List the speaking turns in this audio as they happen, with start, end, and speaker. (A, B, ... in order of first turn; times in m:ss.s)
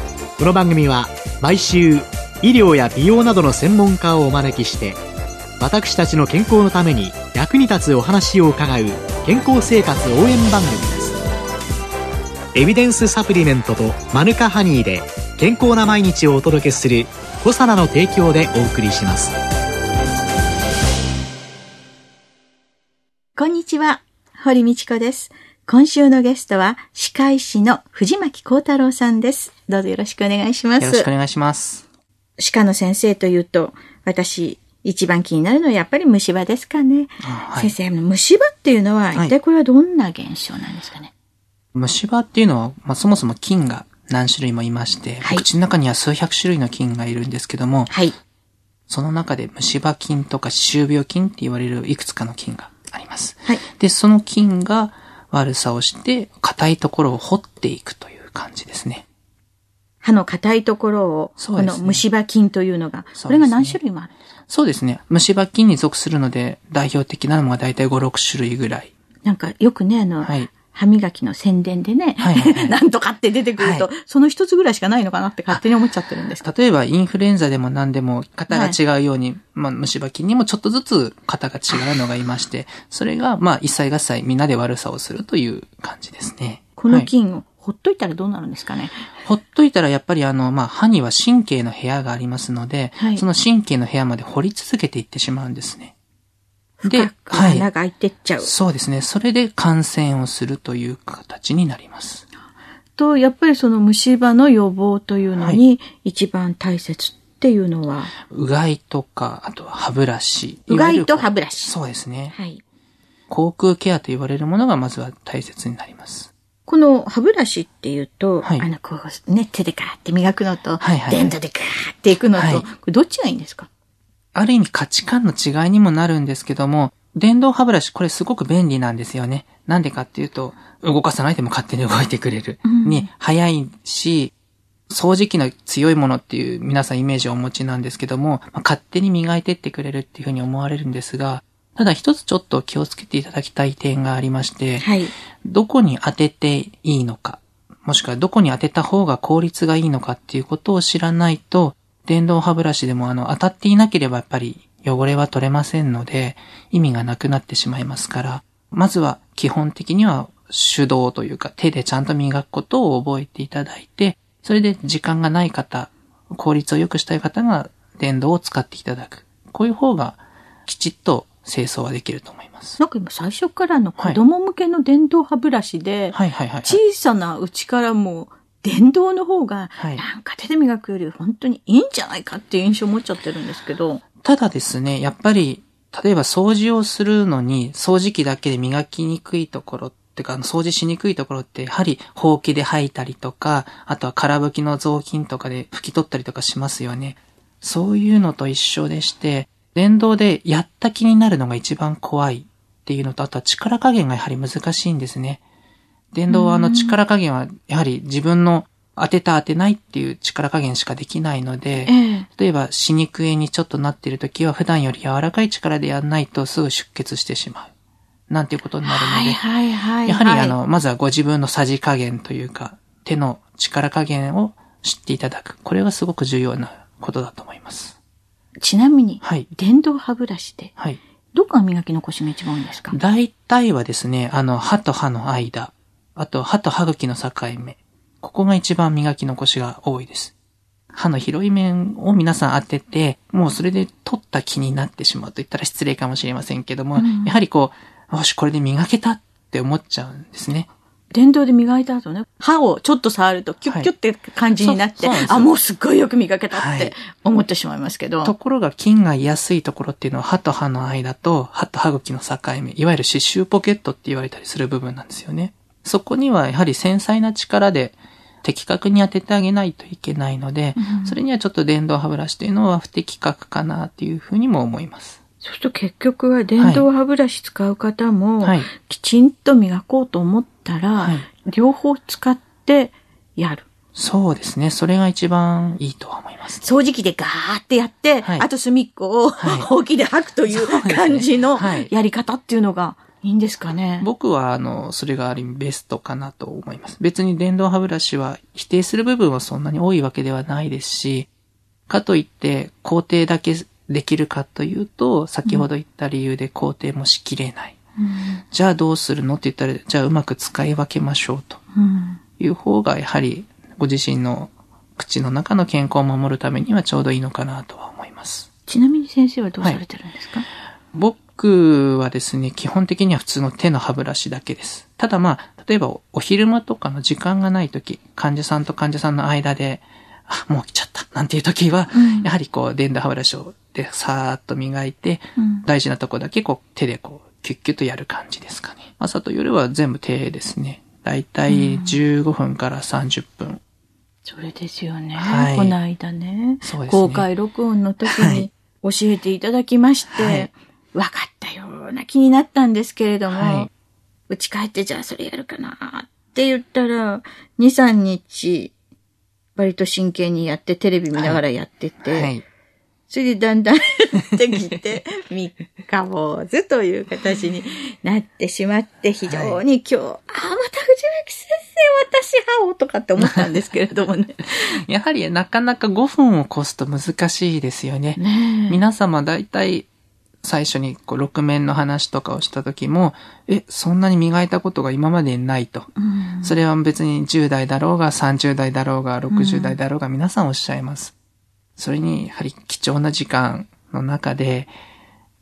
0:00.4-0:05.0 A
0:05.6-0:11.2 A
0:12.5-0:19.4 A
0:23.4-0:31.1 B
0:30.8-0:31.8 C
0:32.4-0:41.1 B
0:37.2-0:37.7 C
0:41.8-0:47.9 C
0:47.9-0:48.2 B
0:48.9-0:59.0 C
1:00.0-1:04.1 B
1:01.4-1:02.0 C
1:03.2-1:03.8 C
1:04.5-1:08.9 C
1:09.2-1:16.5 B
1:10.2-1:10.5 C
1:12.2-1:12.8 C
1:13.6-1:13.9 C
1:16.4-1:27.1 C
1:18.5-1:18.8 B
1:26.8-1:29.1 B
1:29.2-1:35.9 C
1:33.0-1:33.2 B
1:36.8-1:38.5 B
1:36.9-1:37.7 C
1:38.4-1:42.3 C
1:43.0-1:48.2 B
1:48.3-1:52.3 C
1:50.7-1:51.8 B
1:52.3-1:52.6 B
1:53.3-1:56.3 C
1:56.7-2:03.7 B
2:00.8-2:01.3 C
2:02.4-2:02.6 C
2:04.4-2:14.3 C
2:12.7-2:13.1 B
2:14.9-2:24.9 C
2:24.8-2:25.1 B
2:25.4-2:52.8 C
2:52.8-3:04.0 B
2:56.1-2:56.8 C
3:04.2-3:25.4 C
3:26.1-3:37.7 C
3:26.3-3:27.0 B
3:31.8-3:32.3 B
3:38.3-3:39.4 C
3:38.8-3:40.6 B
3:40.1-3:48.0 C
3:48.6-3:50.8 B
3:49.2-3:49.5 C
3:51.3-3:53.0 B
3:52.9-4:00.3 C
4:00.9-4:10.7 C
4:07.0-4:07.3 B
4:11.1-4:18.3 B
4:14.5-4:15.5 C
4:16.5-4:17.0 C
4:18.2-4:35.2 C
4:30.8-4:31.2 B
4:35.4-4:43.7 B
4:36.6-4:36.9 C
4:38.4-4:38.7 C
4:41.0-4:41.2 C
4:44.0-4:46.7 C
4:46.6-4:54.1 B
4:48.2-4:48.5 C
4:49.4-4:49.7 C
4:50.5-4:51.9 C
4:54.0-5:01.3 C
5:01.9-5:07.8 C
5:08.0-5:08.4 B
5:08.5-5:11.6 C
5:11.7-5:12.2 B
5:12.4-5:18.5 C
5:18.7-5:20.5 B
5:20.9-5:43.6 C
5:31.9-5:32.3 B
5:35.4-5:35.6 B
5:41.5-5:42.0 B
5:44.2-5:53.7 B
5:45.2-5:45.8 C
5:46.6-5:47.3 C
5:48.1-5:48.5 C
5:50.1-5:50.5 C
5:53.3-5:53.7 C
5:54.3-5:58.7 B
5:59.6-6:02.3 B
6:01.2-6:01.4 C
6:02.1-6:02.4 C
6:03.1-6:14.7 B
6:09.3-6:09.6 C
6:14.7-6:19.9 C
6:18.2-6:18.8 B
6:20.4-6:25.9 C
6:26.0-6:26.6 B
6:26.4-6:31.1 C
6:29.3-6:29.8 B
6:31.8-6:34.7 C